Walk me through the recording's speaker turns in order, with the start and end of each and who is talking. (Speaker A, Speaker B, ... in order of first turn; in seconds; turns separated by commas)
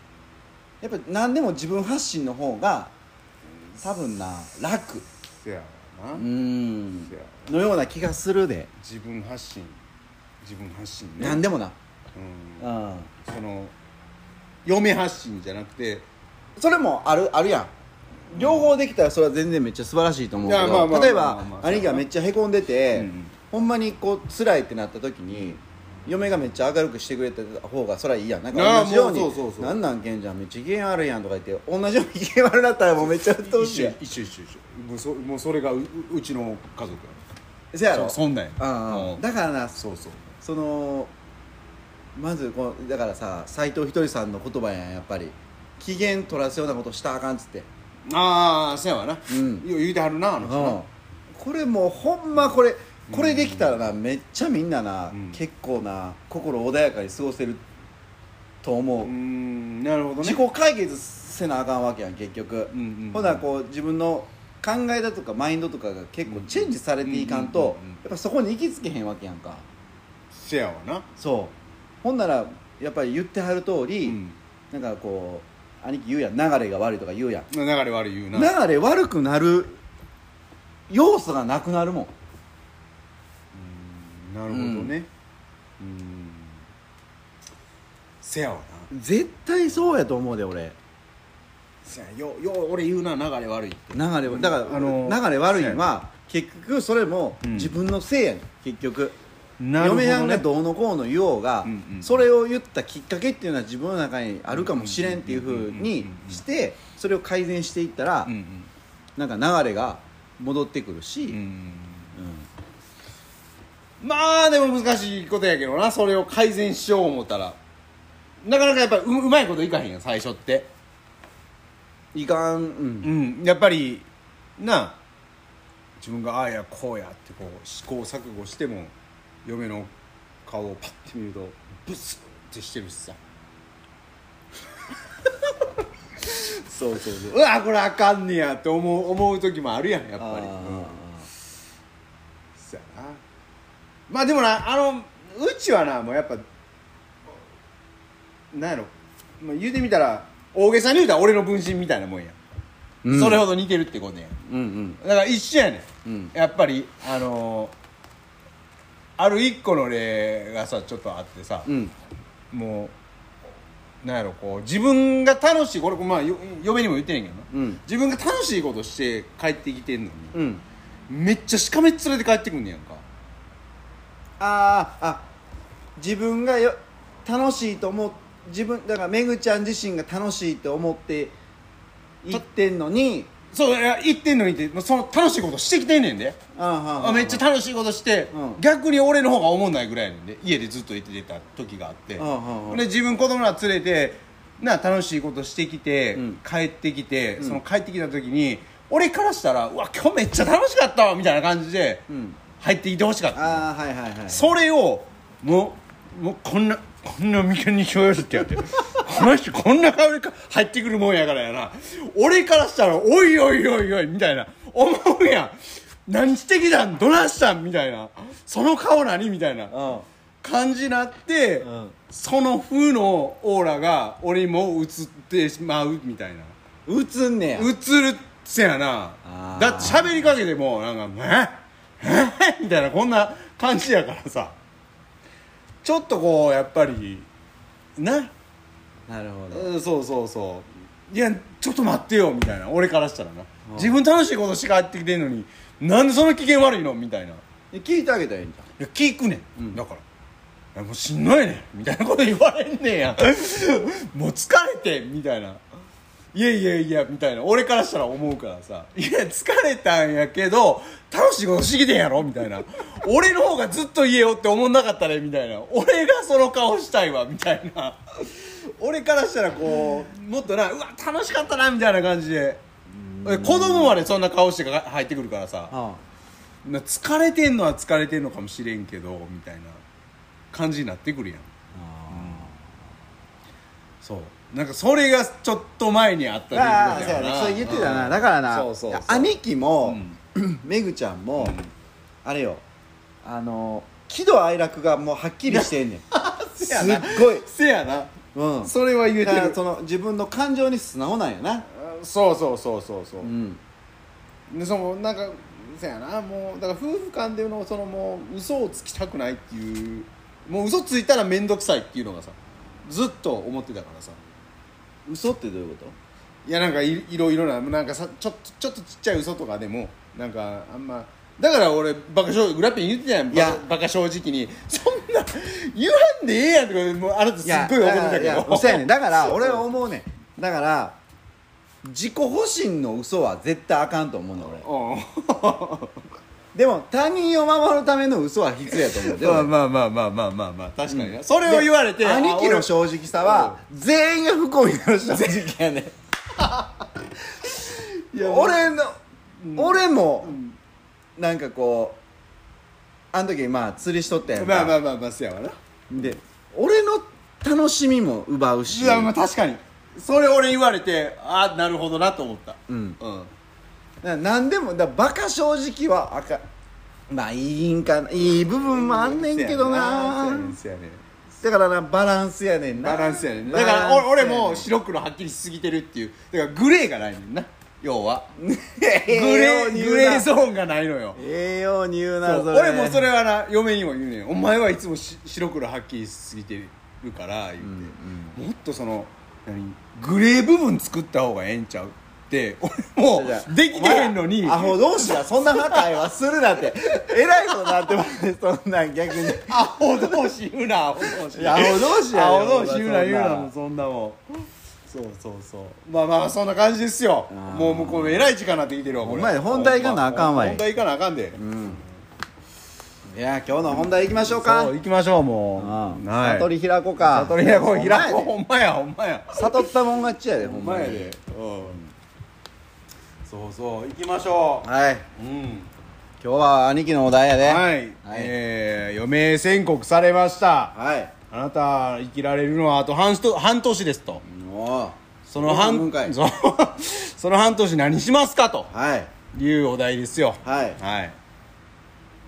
Speaker A: 0.8-2.9, Speaker A: 3.8-5.0, Speaker B: 5.4-6.3, Speaker A: 6.1-8.7, Speaker B: 7.1-7.5, Speaker B: 8.8-9.8, Speaker B: 10.4-11.4, Speaker A: 11.2-11.8, Speaker B: 12.1-13.7, Speaker A: 12.6-13.1, Speaker B: 14.6-16.1, Speaker A: 16.6-17.7, Speaker A: 18.3-34.0, Speaker B: 18.3-18.7, Speaker B: 20.4-22.0, Speaker B: 22.9-23.3, Speaker B: 28.5-29.8, Speaker B: 33.0-37.2, Speaker A: 37.7-39.8, Speaker B: 37.9-39.2, Speaker B: 39.8-40.3, Speaker A: 40.4-41.1, Speaker A: 42.1-47.7, Speaker B: 48.1-50.8, Speaker A: 49.3-49.7, Speaker A: 50.4-57.6, Speaker B: 53.1-53.8, Speaker B: 55.1-55.4, Speaker A: 58.6-59.1, Speaker B: 59.0-60.4, Speaker A: 60.2-69.6, Speaker B: 62.7-63.5, Speaker B: 66.3-68.0, Speaker B: 70.3-71.0, Speaker A: 71.2-74.2, Speaker B: 74.0-74.4, Speaker A: 74.7-77.5, Speaker B: 77.5-78.5, Speaker A: 78.3-79.8, Speaker A: 80.9-82.1, Speaker B: 83.5-85.1, Speaker A: 84.5-84.9, Speaker B: 85.8-86.6, Speaker B: 88.2-88.9, Speaker A: 88.9-90.8, Speaker B: 91.8-95.9, Speaker A: 93.9-99.1, Speaker B: 97.4-97.8, Speaker B: 99.6-100.5, Speaker A: 99.8-108.3, Speaker B: 101.6-102.2, Speaker B: 104.5-106.4, Speaker B: 108.2-108.7, Speaker A: 109.2-111.4, Speaker B: 111.3-112.1, Speaker A: 112.1-112.5, Speaker B: 114.0-117.6, Speaker B: 118.4-120.7, Speaker A: 122.1-123.1, Speaker B: 123.0-124.1, Speaker B: 124.6-125.0, Speaker B: 126.0-128.9, Speaker B: 129.4-129.9, Speaker B: 130.4-133.2, Speaker B: 135.3-135.7, Speaker B: 136.2-141.0, Speaker A: 136.8-137.3, Speaker A: 140.2-141.3, Speaker B: 142.6-143.2, Speaker B: 144.1-146.4, Speaker B: 148.5-152.4, Speaker A: 153.0-153.5, Speaker B: 153.1-154.4, Speaker A: 154.4-155.0, Speaker B: 155.0-157.7, Speaker A: 156.0-156.3, Speaker B: 159.2-161.7, Speaker A: 161.7-161.9, Speaker B: 162.5-162.9, Speaker B: 164.0-170.4, Speaker A: 167.5-167.8, Speaker A: 170.3-170.6, Speaker B: 171.1-173.0, Speaker A: 174.4-175.3, Speaker A: 176.0-181.3, Speaker A: 182.2-183.3, Speaker B: 183.5-186.4, Speaker A: 186.5-187.4, Speaker B: 187.0-202.1, Speaker A: 188.3-188.6, Speaker A: 192.2-192.8, Speaker A: 202.1-202.4, Speaker B: 202.6-203.6, Speaker A: 203.3-204.5, Speaker B: 204.3-219.7, Speaker A: 219.7-220.1, Speaker B: 220.4-226.5, Speaker A: 221.6-221.9, Speaker A: 226.8-227.7, Speaker B: 227.6-234.6, Speaker A: 229.2-230.2, Speaker B: 235.8-237.3, Speaker B: 238.0-238.3, Speaker A: 239.1-239.7, Speaker B: 239.5-247.4, Speaker A: 243.7-244.0, Speaker A: 247.7-248.7, Speaker B: 248.8-250.0, Speaker B: 250.7-255.6, Speaker B: 256.3-272.6, Speaker A: 273.0-274.0, Speaker B: 273.2-275.7, Speaker A: 275.7-276.0, Speaker B: 276.6-279.8, Speaker B: 280.5-281.5, Speaker A: 281.7-282.7, Speaker B: 282.1-282.5, Speaker B: 284.0-290.2, Speaker A: 286.5-291.6, Speaker B: 291.4-291.7, Speaker A: 292.2-292.6, Speaker A: 293.2-296.0, Speaker B: 295.5-299.6, Speaker A: 296.7-297.4, Speaker A: 298.3-301.6, Speaker B: 301.7-303.3, Speaker A: 303.2-303.6, Speaker B: 304.5-314.2, Speaker A: 315.1-315.9, Speaker B: 316.4-329.6, Speaker A: 323.3-323.6, Speaker A: 327.4-331.0, Speaker A: 331.8-334.6, Speaker B: 334.4-336.0, Speaker A: 336.5-339.5, Speaker B: 338.7-343.6, Speaker A: 340.9-345.9, Speaker B: 346.4-346.9, Speaker B: 347.4-348.6, Speaker A: 348.1-349.0, Speaker B: 349.4-350.6, Speaker A: 349.6-350.4, Speaker A: 351.2-352.0, Speaker A: 353.1-354.7, Speaker B: 354.3-355.6, Speaker A: 355.9-359.1, Speaker B: 358.7-363.3, Speaker A: 362.7-363.0, Speaker A: 364.0-366.4, Speaker A: 367.1-370.6, Speaker B: 368.7-371.0, Speaker A: 371.4-374.7, Speaker B: 372.8-378.3, Speaker A: 378.4-380.3, Speaker B: 379.1-381.2, Speaker A: 381.1-383.1, Speaker B: 382.2-395.9, Speaker A: 387.6-388.4, Speaker A: 393.1-399.7, Speaker B: 396.9-397.9, Speaker B: 399.4-404.2, Speaker A: 401.2-403.5, Speaker B: 404.9-411.4, Speaker A: 407.3-408.2, Speaker A: 409.0-410.6, Speaker A: 411.4-411.8, Speaker A: 413.1-414.7, Speaker B: 413.8-419.7, Speaker A: 415.6-418.3, Speaker A: 419.3-421.1, Speaker B: 420.4-421.8, Speaker B: 423.2-425.7, Speaker A: 424.6-425.1, Speaker A: 426.2-428.3, Speaker B: 427.4-430.7, Speaker A: 430.7-431.1, Speaker B: 431.3-434.2, Speaker A: 434.2-436.1, Speaker B: 435.3-438.7, Speaker A: 438.7-439.1, Speaker B: 439.3-441.1, Speaker A: 440.4-440.8